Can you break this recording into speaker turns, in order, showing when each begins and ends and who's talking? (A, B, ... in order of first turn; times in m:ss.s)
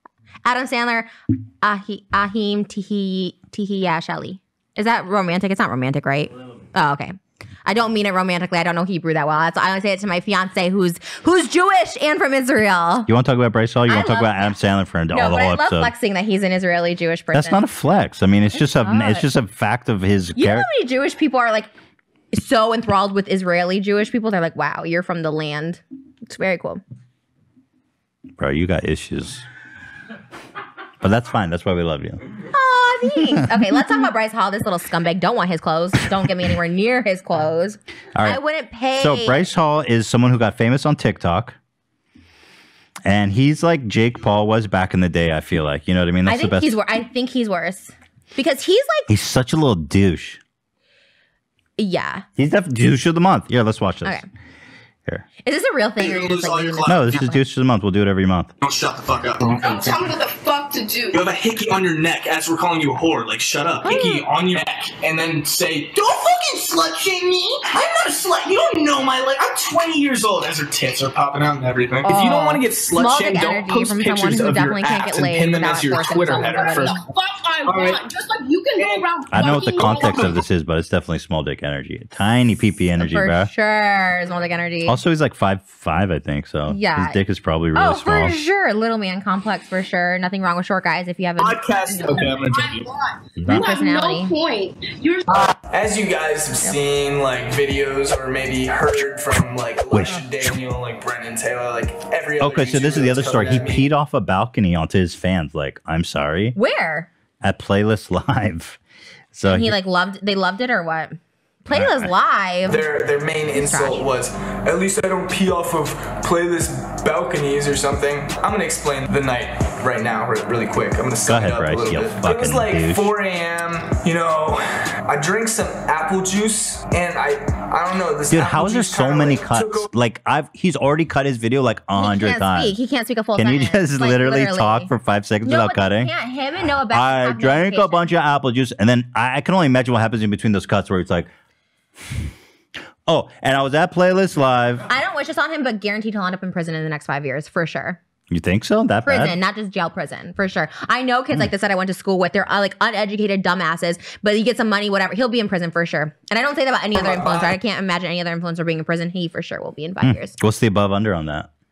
0:00.4-0:13.1 A
0:13.1-0:15.9 B
0:13.9-0:14.5 A
0:15.1-0:17.6 A
0:17.3-0:20.7 B
0:18.6-0:19.2 A
0:20.4-0:21.7 A
0:22.3-0:26.8 A
0:28.4-0:29.4 B
0:31.0-0:32.2 B
0:32.5-0:39.5 A
0:38.1-0:38.4 B
0:38.9-0:41.6 B
0:43.0-0:46.8 B
0:46.2-0:49.1 A
0:49.1-0:50.4 B
0:51.8-0:52.2 A
0:52.4-0:54.2 B
0:55.4-0:57.4 A
0:56.0-0:57.2 C
0:56.8-0:58.5 B
0:58.6-1:00.0 C
0:59.4-1:01.4 D
1:01.1-1:06.4 C
1:03.8-1:04.2 A
1:06.4-1:08.0 D
1:07.7-1:17.1 C
1:12.0-1:17.0 A
1:16.4-1:20.4 D
1:17.6-1:18.0 C
1:19.3-1:23.5 B
1:19.7-1:20.4 C
1:23.0-1:25.0 A
1:24.8-1:28.4 B
1:26.7-1:27.2 A
1:27.7-1:32.4 A
1:31.4-1:32.8 C
1:32.0-1:35.5 D
1:33.5-1:34.3 A
1:35.3-1:43.9 C
1:39.9-1:40.2 B
1:42.4-1:46.6 B
1:46.5-1:47.1 A
1:47.4-1:48.8 B
1:49.3-1:49.8 B
1:49.5-1:52.8 A
1:52.6-2:09.9 C
1:53.5-1:54.0 A
2:01.3-2:03.1 B
2:08.3-2:12.8 B
2:12.0-2:14.9 A
2:13.4-2:16.1 B
2:15.4-2:18.0 A
2:16.9-2:21.3 B
2:23.1-2:24.8 B
2:24.9-2:28.0 A
2:28.3-2:29.4 B
2:29.0-2:40.4 A
2:37.0-2:37.5 C
2:40.0-2:41.5 B